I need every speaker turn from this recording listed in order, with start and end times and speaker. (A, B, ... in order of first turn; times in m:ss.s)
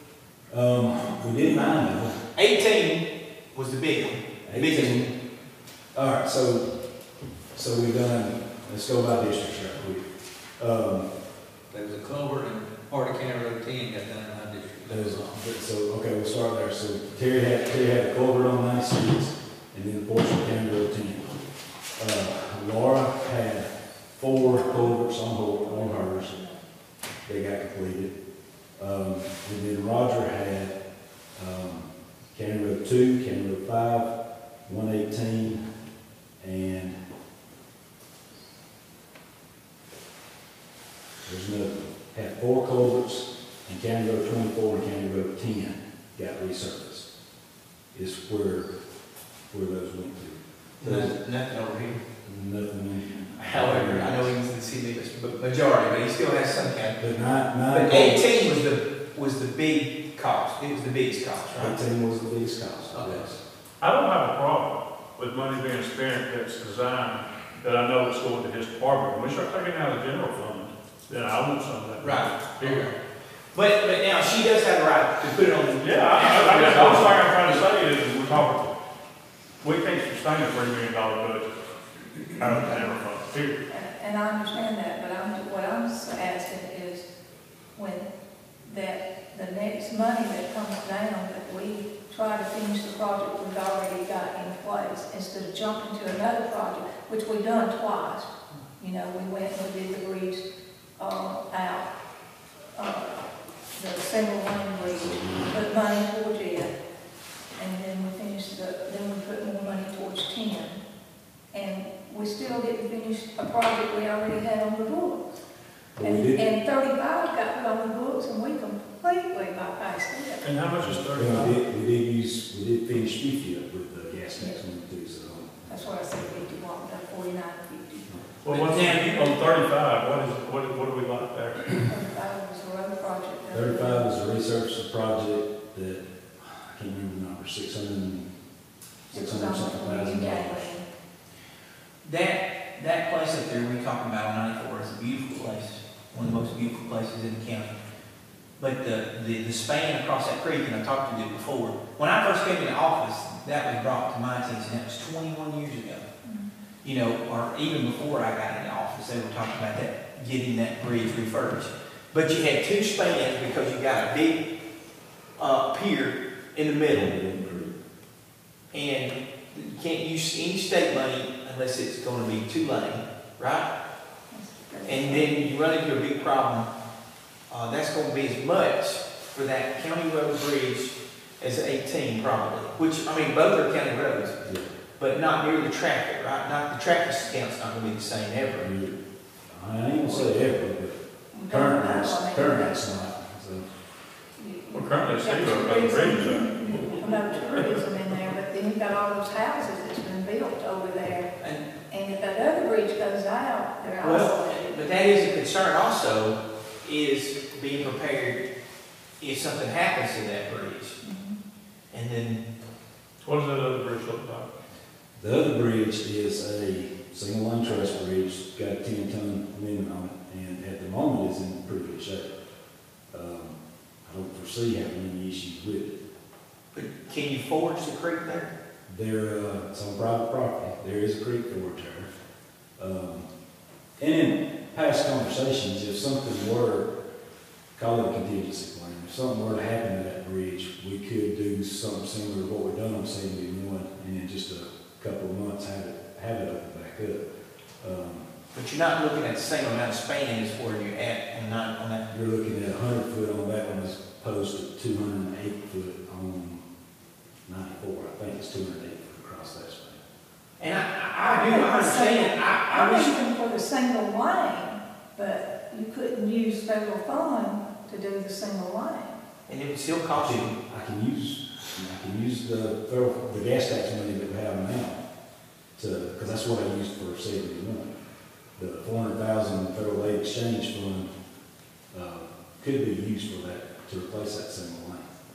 0:00.5-0:02.2 A
0:02.4-0:05.1 B
0:04.4-0:05.1 A
0:05.9-0:06.7 A
0:07.5-0:10.0 A
0:10.6-0:11.1 A
0:11.7-0:15.4 C
0:14.9-0:21.3 A
0:22.0-0:26.3 A
0:24.4-0:26.6 D
0:27.2-0:28.2 A
0:28.8-0:30.8 A
0:31.4-0:34.1 A
0:34.7-0:35.6 A
0:36.4-0:37.0 A
0:41.2-0:47.1 A
0:47.9-0:48.8 A
0:49.5-0:51.2 A
0:50.8-0:52.0 B
0:52.2-0:54.3 A
0:53.4-0:57.0 B
0:57.0-0:58.3 A
0:57.7-1:01.8 B
1:01.5-1:03.4 A
1:02.9-1:03.2 B
1:03.8-1:12.9 E
1:12.0-1:12.9 B
1:13.5-1:17.8 B
1:15.8-1:18.7 E
1:19.6-1:21.5 E
1:22.4-1:23.6 E
1:22.5-1:22.9 B
1:23.7-1:27.1 D
1:27.8-1:28.1 D
1:28.6-1:40.4 D
1:41.0-1:41.9 D
1:42.8-1:43.2 D
1:43.7-1:46.7 D
1:44.9-1:45.6 A
1:47.6-1:50.8 D
1:51.5-1:55.4 D
1:56.0-1:56.4 A
1:56.0-2:00.5 D
2:00.4-2:01.6 E
2:00.8-2:06.1 A
2:04.4-2:04.6 D
2:05.7-2:08.1 D
2:08.4-2:11.9 E
2:08.5-2:09.4 B
2:11.8-2:14.1 D
2:13.5-2:18.3 A
2:19.1-2:20.7 A
2:19.1-2:20.9 D
2:22.0-2:27.7 B
2:28.6-2:36.1 B
2:36.2-2:36.5 D
2:36.8-2:44.4 B
2:45.4-2:47.2 B
2:46.9-2:47.7 A
2:48.7-2:53.7 B
2:54.3-2:55.5 D
2:54.9-2:56.7 B
2:57.5-3:04.4 B
3:05.0-3:08.7 B
3:08.6-3:09.0 A
3:09.5-3:13.6 A
3:10.0-3:10.4 D
3:11.3-3:12.9 D
3:14.4-3:21.3 D
3:14.7-3:18.2 E
3:21.4-3:21.6 B
3:21.9-3:24.9 D
3:24.0-3:28.4 B
3:29.2-3:31.0 B
3:31.0-3:31.4 D
3:31.9-3:32.4 B
3:33.2-3:34.5 E
3:35.2-3:42.3 A
3:43.1-3:46.0 A
3:46.7-3:48.5 B
3:48.9-3:52.1 A
3:52.8-3:53.3 A
3:54.0-3:56.9 A
3:57.8-4:07.2 A
4:07.8-4:08.3 A
4:08.5-4:12.0 B
4:12.1-4:16.6 A
4:17.5-4:20.0 A
4:20.6-4:23.2 B
4:21.2-4:29.2 D
4:29.5-4:30.5 B
4:30.2-4:35.0 A
4:35.8-4:38.0 A
4:38.6-4:41.1 A
4:41.9-4:45.1 A